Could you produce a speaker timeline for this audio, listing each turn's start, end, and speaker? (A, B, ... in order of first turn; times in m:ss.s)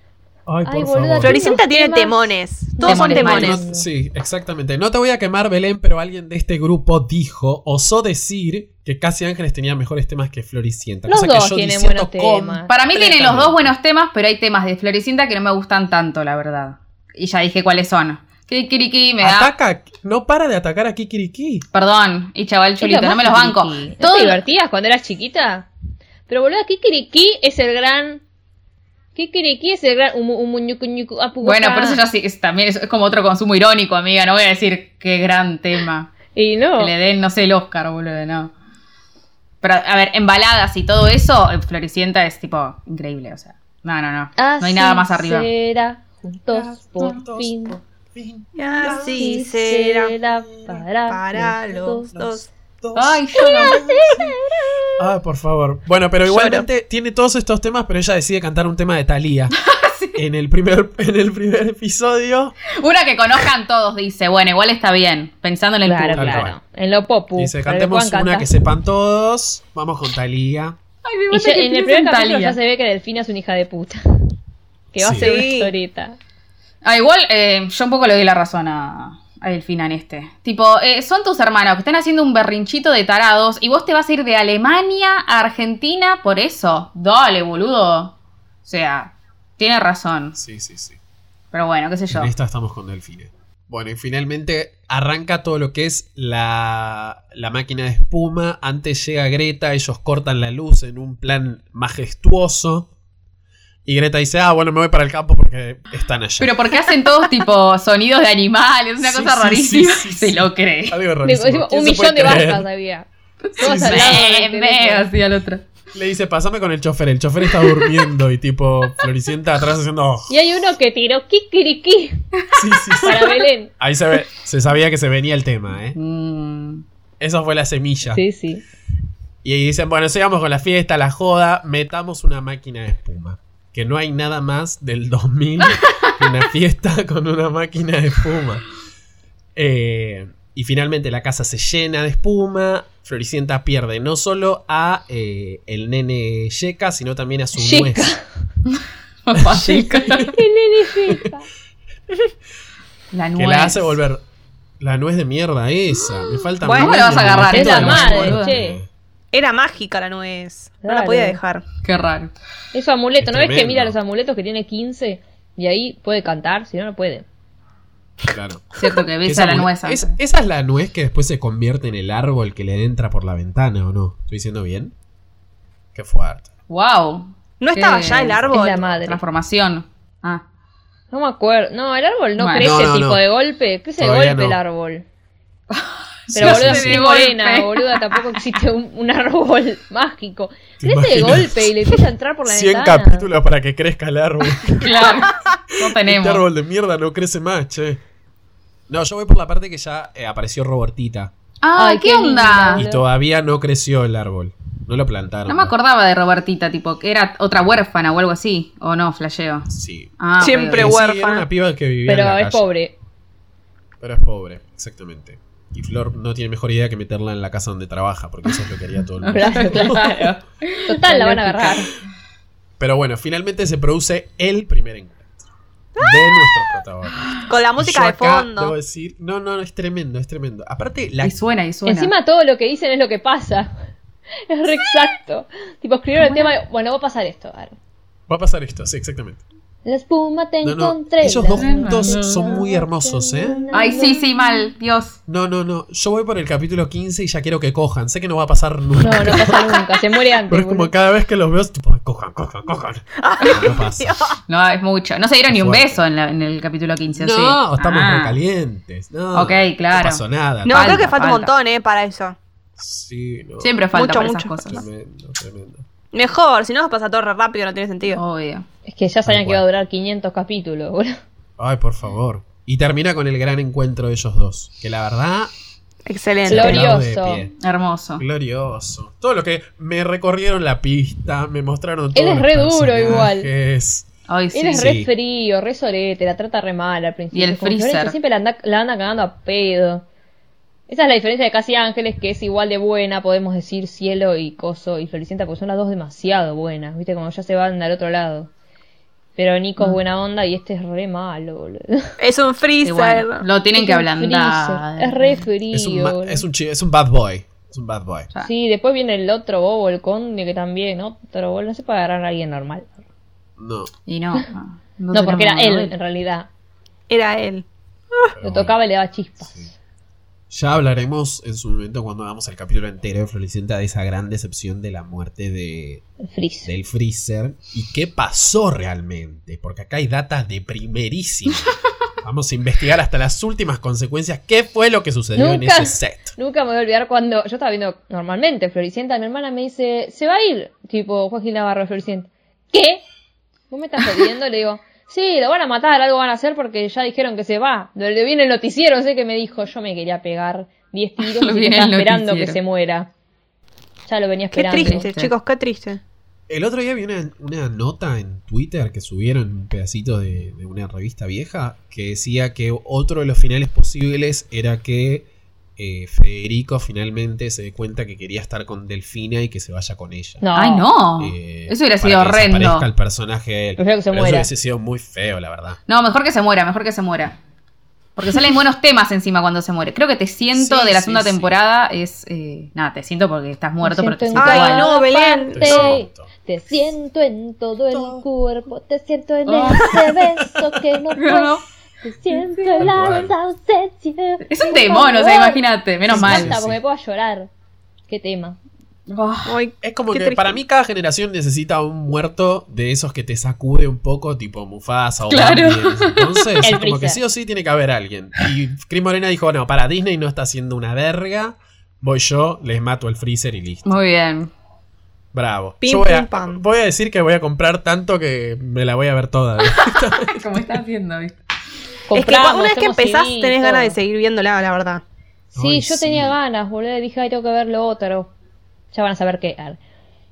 0:00.4-0:01.5 A
0:00.6-0:03.9 B
0:01.2-0:03.6 C
0:02.8-0:03.6 D
0:03.3-0:13.7 A
0:11.1-0:12.7 B
0:12.7-0:19.5 D
0:19.2-0:21.6 A
0:21.7-0:24.4 D
0:22.8-0:25.7 B
0:26.3-0:28.2 B
0:29.2-0:32.0 B
0:31.4-0:36.1 D
0:36.3-0:36.9 B
0:36.8-0:38.5 D
0:39.6-0:45.5 D
0:44.4-0:47.8 B
0:46.5-0:49.4 A
0:48.6-0:50.2 C
0:48.8-0:52.1 B
0:51.0-0:52.5 C
0:52.1-0:54.4 A
0:53.0-0:53.8 D
0:53.4-0:54.3 B
0:55.0-0:59.6 A
0:56.3-0:56.6 C
0:59.6-1:00.2 D
1:00.1-1:02.5 A
1:02.8-1:06.5 D
1:05.8-1:08.5 B
1:06.1-1:06.6 A
1:07.4-1:10.8 A
1:11.0-1:12.6 D
1:11.3-1:14.0 B
1:14.9-1:15.3 A
1:15.0-1:16.2 B
1:15.2-1:15.7 C
1:16.8-1:28.1 D
1:28.6-1:30.4 D
1:30.3-1:31.0 A
1:31.5-1:32.3 D
1:32.1-1:42.9 A
1:43.8-1:46.6 A
1:46.4-1:51.0 D
1:49.0-1:52.6 A
1:51.2-1:53.0 B
1:53.6-1:54.3 A
1:53.6-1:55.0 B
1:53.6-1:55.6 D
1:55.9-2:00.3 A
1:57.6-1:57.8 D
2:00.3-2:02.2 B
2:02.5-2:06.0 A
2:03.0-2:03.7 B
2:05.9-2:06.8 D
2:07.2-2:08.2 A
2:08.1-2:08.6 B
2:09.4-2:18.6 A
2:19.6-2:28.1 A
2:27.6-2:28.2 B
2:28.7-2:30.3 D
2:29.3-2:30.3 A
2:30.2-2:31.5 B
2:33.1-2:34.0 D
2:33.4-2:34.2 A
2:34.8-2:38.9 A
2:36.6-2:37.0 C
2:36.7-2:38.5 D
2:37.4-2:38.8 B
2:39.3-2:41.6 C
2:40.8-2:41.4 B
2:41.8-2:42.3 D
2:42.7-2:47.2 B
2:43.2-2:44.0 A
2:48.3-2:54.9 A
2:48.8-2:50.2 D
2:55.9-2:56.5 A
2:56.7-2:58.4 D
2:57.6-2:58.8 C
2:58.3-2:59.0 A
2:58.5-2:59.2 B
2:59.1-3:00.4 D
3:01.1-3:05.0 B
3:02.4-3:02.8 D
3:02.6-3:03.2 A
3:04.0-3:04.6 A
3:05.7-3:08.5 D
3:06.3-3:07.0 A
3:06.3-3:13.3 B
3:10.8-3:11.9 A
3:12.4-3:15.3 A
3:14.8-3:16.4 D
3:15.9-3:18.0 A
3:18.9-3:21.3 A
3:21.6-3:22.8 D
3:21.8-3:23.0 B
3:22.7-3:25.7 A
3:25.5-3:31.0 D
3:29.7-3:30.1 A
3:30.4-3:31.4 C
3:30.7-3:32.6 A
3:32.0-3:32.9 B
3:34.0-3:40.2 A
3:39.2-3:41.7 D
3:39.3-3:41.9 B
3:42.8-3:45.4 A
3:46.0-3:51.4 A
3:47.5-3:48.7 C
3:51.2-3:52.1 D
3:51.8-3:53.7 B
3:54.5-3:57.8 B
3:56.2-3:56.5 D
3:58.3-3:59.4 A
3:59.8-4:04.6 B
4:00.6-4:03.7 A
4:01.6-4:02.6 D
4:03.7-4:05.2 D
4:05.3-4:09.7 A
4:09.0-4:10.9 B
4:10.5-4:14.1 A
4:13.2-4:14.4 C
4:14.5-4:18.4 D
4:15.5-4:16.0 A
4:17.2-4:21.1 A
4:19.3-4:21.5 D
4:20.6-4:22.4 C
4:22.8-4:23.8 A
4:23.6-4:24.8 D
4:23.9-4:24.8 C
4:24.6-4:25.8 A
4:26.1-4:28.2 C
4:28.1-4:28.7 D
4:28.8-4:31.2 B
4:29.2-4:29.6 A
4:31.6-4:35.5 A
4:36.0-4:36.9 C
4:36.4-4:37.5 A
4:36.5-4:37.4 B
4:37.6-4:38.2 D
4:38.2-4:44.1 A
4:42.1-4:43.5 B
4:44.3-4:45.0 D
4:44.5-4:50.0 B
4:44.8-4:45.1 A
4:47.3-4:48.2 D
4:50.9-4:58.5 B
4:59.4-5:02.1 B
5:02.2-5:03.4 C
5:02.8-5:05.4 D
5:03.8-5:06.4 B
5:05.7-5:08.3 A
5:08.4-5:12.9 B
5:13.6-5:13.9 A
5:14.1-5:15.9 D
5:15.1-5:16.5 B
5:17.1-5:17.6 C
5:18.3-5:18.8 A
5:18.4-5:19.7 B
5:19.4-5:19.7 A
5:20.5-5:26.0 A
5:26.2-5:26.7 B
5:26.6-5:31.7 A
5:32.2-5:36.3 A
5:35.3-5:43.0 B
5:43.7-5:53.1 B
5:51.2-5:52.6 D
5:54.0-5:55.0 B
5:54.5-5:56.0 C
5:54.7-5:55.3 D
5:56.5-6:10.4 A
6:10.4-6:10.9 B
6:10.5-6:12.9 D
6:11.2-6:15.8 A
6:13.8-6:14.5 B
6:15.9-6:17.4 D
6:18.2-6:25.0 D
6:20.5-6:21.6 A
6:23.8-6:37.5 B
6:24.3-6:25.9 C
6:25.5-6:26.3 A
6:27.9-6:28.2 A
6:29.4-6:30.2 D
6:31.1-6:31.6 D
6:32.4-6:32.6 D
6:32.8-6:33.4 A
6:34.5-6:36.6 D
6:36.1-6:36.8 A
6:38.1-6:38.6 B
6:39.1-6:39.5 D
6:39.4-6:40.6 C
6:39.8-6:53.9 A
6:45.3-6:46.5 D
6:46.6-6:47.2 B
6:53.8-6:54.5 D
6:55.3-7:00.8 A
6:55.8-6:56.6 C
7:00.4-7:01.3 D
7:02.1-7:03.9 B
7:02.1-7:05.0 C
7:05.5-7:06.4 A
7:05.6-7:08.3 B
7:08.9-7:09.8 B